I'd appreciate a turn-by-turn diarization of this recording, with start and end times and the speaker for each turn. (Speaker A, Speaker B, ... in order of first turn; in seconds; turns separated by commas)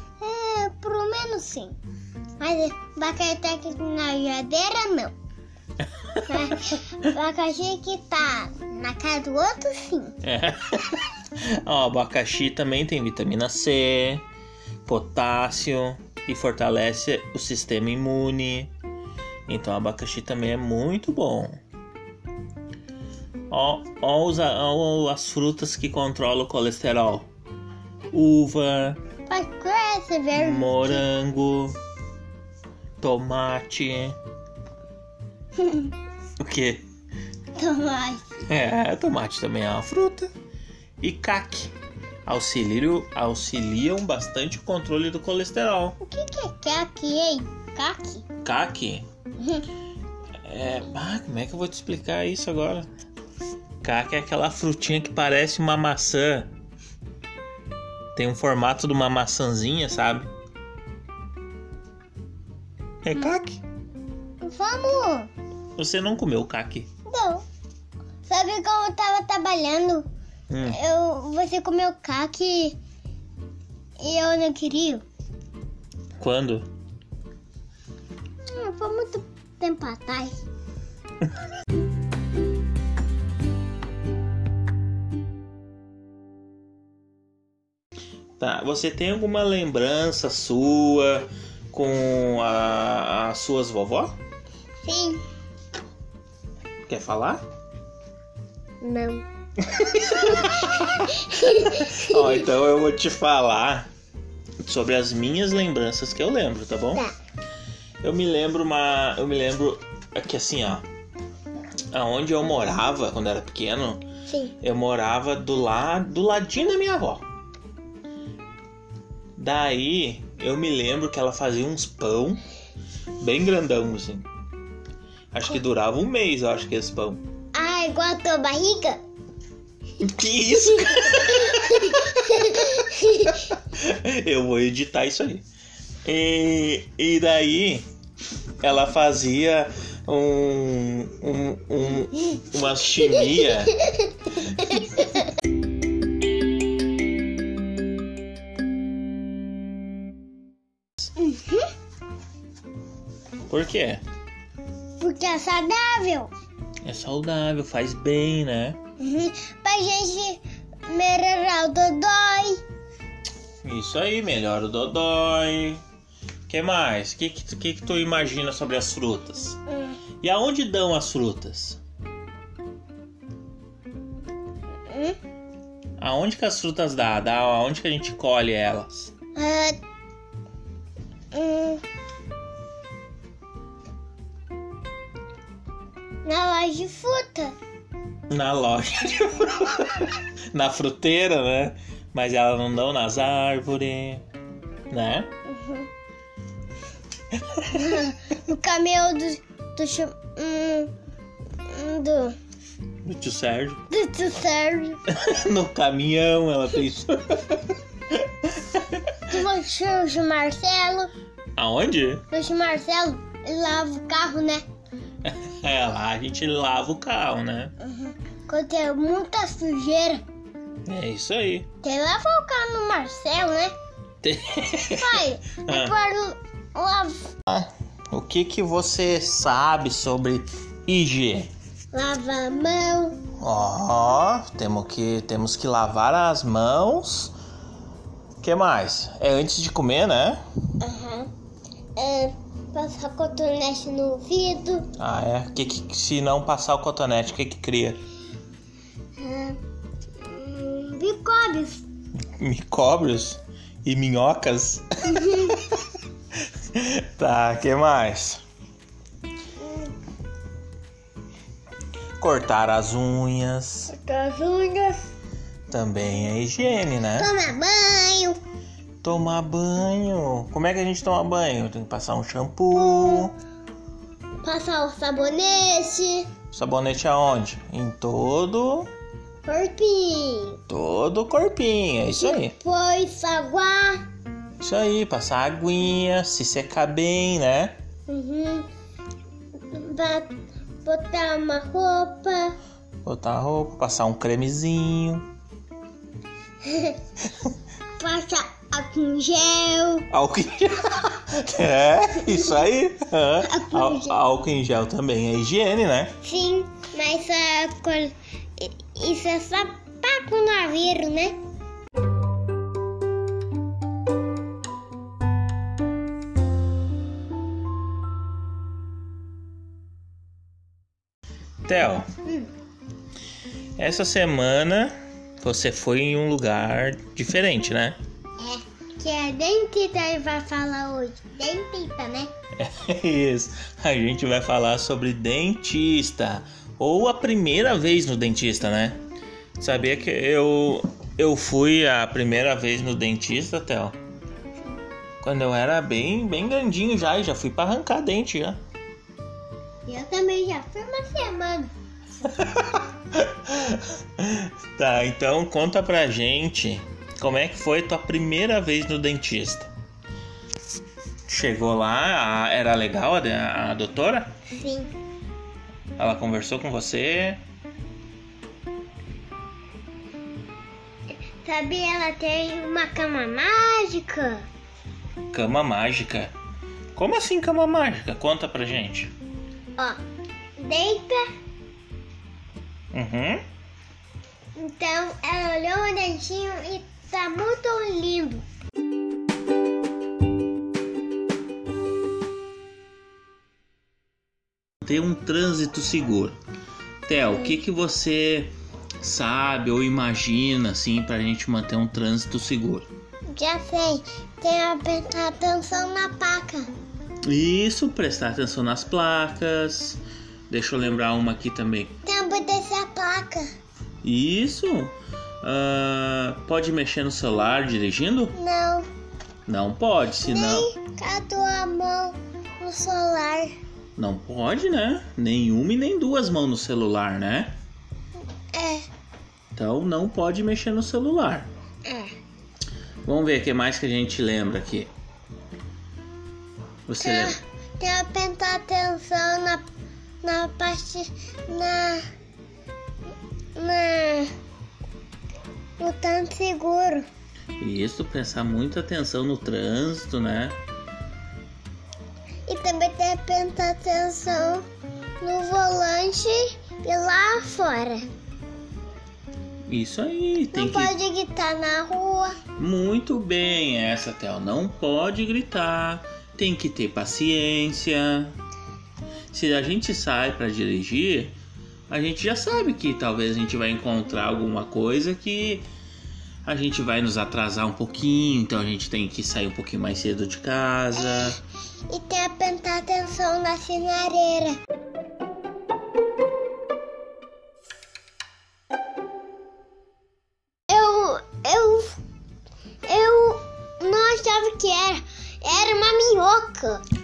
Speaker A: 0.2-1.8, Speaker A: 2.4-5.1, Speaker B: 6.0-6.5, Speaker A: 6.3-10.2, Speaker B: 10.2-14.2, Speaker B: 14.8-18.7, Speaker B: 19.5-21.6, Speaker B: 23.5-27.3, Speaker B: 28.1-29.0, Speaker A: 29.3-31.0, Speaker B: 30.4-31.8, Speaker B: 33.0-34.2, Speaker A: 35.6-35.9, Speaker B: 36.4-36.8, Speaker A: 37.6-38.5, Speaker B: 38.5-40.3, Speaker B: 41.0-41.7, Speaker B: 42.3-46.0, Speaker A: 46.0-48.2, Speaker B: 48.4-49.0, Speaker A: 49.4-49.7, Speaker B: 50.4-52.9, Speaker B: 53.8-56.5, Speaker B: 58.1-60.3, Speaker B: 63.0-63.6, Speaker A: 64.4-65.3, Speaker B: 65.8-66.9, Speaker A: 67.1-67.5, Speaker A: 68.2-70.1, Speaker B: 70.5-70.8, Speaker A: 70.7-72.8, Speaker A: 74.0-75.0, Speaker B: 76.2-76.7, Speaker A: 78.5-80.4, Speaker B: 88.4-94.2, Speaker A: 94.8-95.2, Speaker B: 96.9-97.4, Speaker A: 98.8-99.3, Speaker B: 99.8-100.9, Speaker A: 99.8-102.4, Speaker B: 101.5-103.9, Speaker B: 104.6-107.1, Speaker B: 108.0-110.8, Speaker B: 111.9-114.0, Speaker A: 114.3-114.6, Speaker B: 114.6-117.2, Speaker B: 119.4-122.4, Speaker B: 123.2-124.3, Speaker B: 125.3-127.2, Speaker A: 127.5-129.0, Speaker B: 130.0-132.2, Speaker A: 131.0-133.5, Speaker B: 133.4-135.4, Speaker B: 136.1-137.9, Speaker B: 138.6-143.8, Speaker A: 143.2-145.3, Speaker A: 151.2-151.7, Speaker B: 153.5-154.0, Speaker A: 155.0-156.3, Speaker B: 156.8-158.8, Speaker A: 159.0-162.6, Speaker B: 163.6-165.8, Speaker B: 166.5-169.6, Speaker A: 169.7-170.0, Speaker B: 170.2-171.8, Speaker A: 174.9-175.2, Speaker B: 176.0-179.1, Speaker A: 179.3-179.8, Speaker A: 181.3-181.8, Speaker A: 186.2-187.6, Speaker B: 188.3-194.2, Speaker B: 194.9-195.3, Speaker A: 195.5-195.9, Speaker B: 197.5-197.8, Speaker A: 197.7-200.9, Speaker A: 201.7-202.4, Speaker B: 203.0-203.8, Speaker A: 203.9-205.0, Speaker B: 205.1-209.2, Speaker A: 209.3-211.1, Speaker B: 211.6-212.2, Speaker A: 212.3-214.6, Speaker B: 215.2-217.7, Speaker A: 217.8-220.2, Speaker B: 220.9-221.7, Speaker A: 221.8-223.7, Speaker B: 224.2-225.9, Speaker A: 224.9-227.3, Speaker B: 227.5-231.5, Speaker A: 231.9-233.2, Speaker B: 233.4-237.3, Speaker B: 238.4-240.4, Speaker A: 240.8-241.3, Speaker A: 242.0-244.9, Speaker B: 245.0-248.0, Speaker A: 249.2-249.6, Speaker A: 250.2-251.8, Speaker B: 252.4-255.8, Speaker A: 255.2-255.5, Speaker B: 256.7-258.4, Speaker A: 259.6-259.9, Speaker B: 262.2-263.9, Speaker A: 263.9-265.1, Speaker B: 265.7-267.3, Speaker A: 267.1-268.4, Speaker B: 269.0-273.4, Speaker A: 272.8-273.3, Speaker A: 274.4-276.3, Speaker B: 276.5-278.9, Speaker A: 279.4-280.6, Speaker B: 280.7-282.6, Speaker A: 282.1-284.0, Speaker B: 284.6-287.8, Speaker A: 288.1-288.7, Speaker A: 289.7-290.3, Speaker A: 290.8-292.6, Speaker B: 293.1-295.3, Speaker A: 296.6-297.0, Speaker A: 298.0-300.1, Speaker B: 300.1-306.2, Speaker A: 303.4-304.2, Speaker A: 306.2-311.4, Speaker B: 321.7-322.1, Speaker B: 323.8-328.0, Speaker A: 328.4-332.3, Speaker B: 332.6-339.0, Speaker B: 339.6-344.0, Speaker B: 345.2-348.6, Speaker A: 349.9-351.7, Speaker B: 352.2-359.7, Speaker B: 361.3-364.4, Speaker A: 364.5-364.9, Speaker B: 366.0-367.4, Speaker A: 371.4-374.4, Speaker B: 375.3-376.3, Speaker B: 377.0-379.1, Speaker A: 380.6-381.2, Speaker B: 382.9-383.4, Speaker A: 384.6-388.4, Speaker B: 394.8-396.4, Speaker B: 397.1-402.9, Speaker A: 397.3-397.6, Speaker A: 403.3-406.7, Speaker B: 407.2-411.9, Speaker A: 412.1-413.5, Speaker B: 414.0-418.3, Speaker A: 418.4-418.9, Speaker B: 419.5-420.7, Speaker A: 420.2-423.5, Speaker B: 424.0-427.6, Speaker A: 428.5-428.9, Speaker B: 429.6-431.5, Speaker A: 431.9-432.1, Speaker B: 433.1-434.9, Speaker B: 436.9-437.4, Speaker A: 437.0-439.7, Speaker A: 440.2-442.0, Speaker A: 443.6-444.3, Speaker A: 445.8-447.1, Speaker B: 447.6-450.6, Speaker A: 452.5-454.6, Speaker A: 455.2-458.1, Speaker B: 459.7-460.9, Speaker A: 460.5-462.4, Speaker B: 462.6-468.4, Speaker B: 469.3-471.4, Speaker B: 471.9-475.7, Speaker B: 476.4-481.4, Speaker A: 481.0-481.3, Speaker A: 481.9-484.6, Speaker A: 490.7-492.0, Speaker A: 492.9-496.8